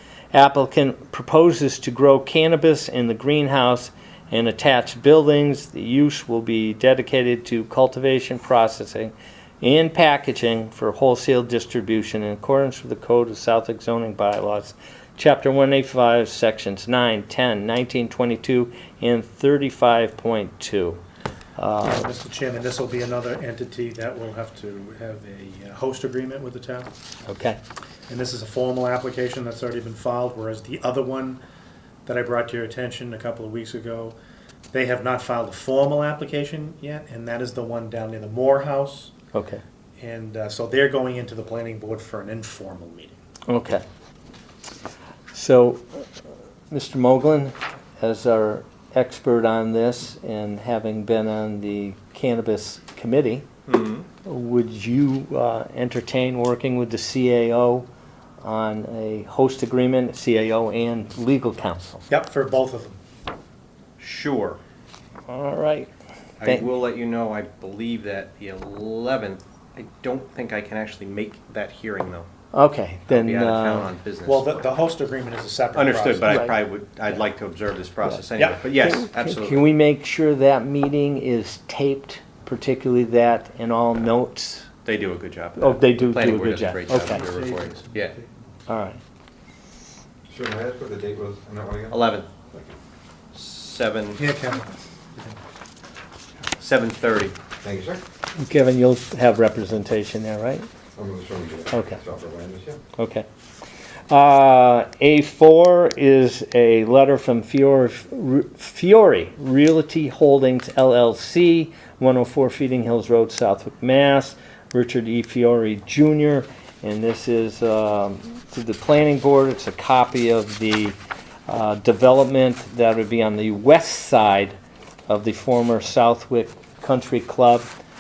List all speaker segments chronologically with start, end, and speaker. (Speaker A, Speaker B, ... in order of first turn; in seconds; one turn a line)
Speaker A: 0.3-21.0
Speaker A: 21.6-22.1
Speaker B: 21.8-26.9
Speaker A: 27.3-27.6
Speaker B: 28.1-31.4
Speaker B: 32.1-34.2
Speaker B: 34.7-39.1
Speaker A: 39.3-39.6
Speaker B: 40.0-43.2
Speaker A: 43.5-43.8
Speaker A: 45.3-46.1
Speaker A: 46.7-53.5
Speaker C: 53.7-54.1
Speaker A: 54.2-57.9
Speaker A: 58.4-62.1
Speaker B: 62.1-63.0
Speaker C: 64.0-64.6
Speaker A: 65.3-65.9
Speaker C: 66.4-72.3
Speaker A: 72.5-73.9
Speaker C: 73.1-74.6
Speaker B: 74.3-76.5
Speaker C: 75.7-79.6
Speaker A: 78.8-84.7
Speaker C: 84.8-88.2
Speaker A: 85.6-87.3
Speaker B: 86.9-88.3
Speaker A: 88.7-89.0
Speaker D: 90.3-92.7
Speaker C: 91.9-92.3
Speaker C: 93.3-94.2
Speaker B: 94.2-95.4
Speaker C: 96.6-97.4
Speaker D: 97.6-98.0
Speaker A: 98.4-100.7
Speaker D: 101.0-102.8
Speaker A: 101.7-102.0
Speaker A: 103.0-103.3
Speaker A: 104.1-121.0
Speaker A: 121.5-124.5
Speaker A: 125.1-127.7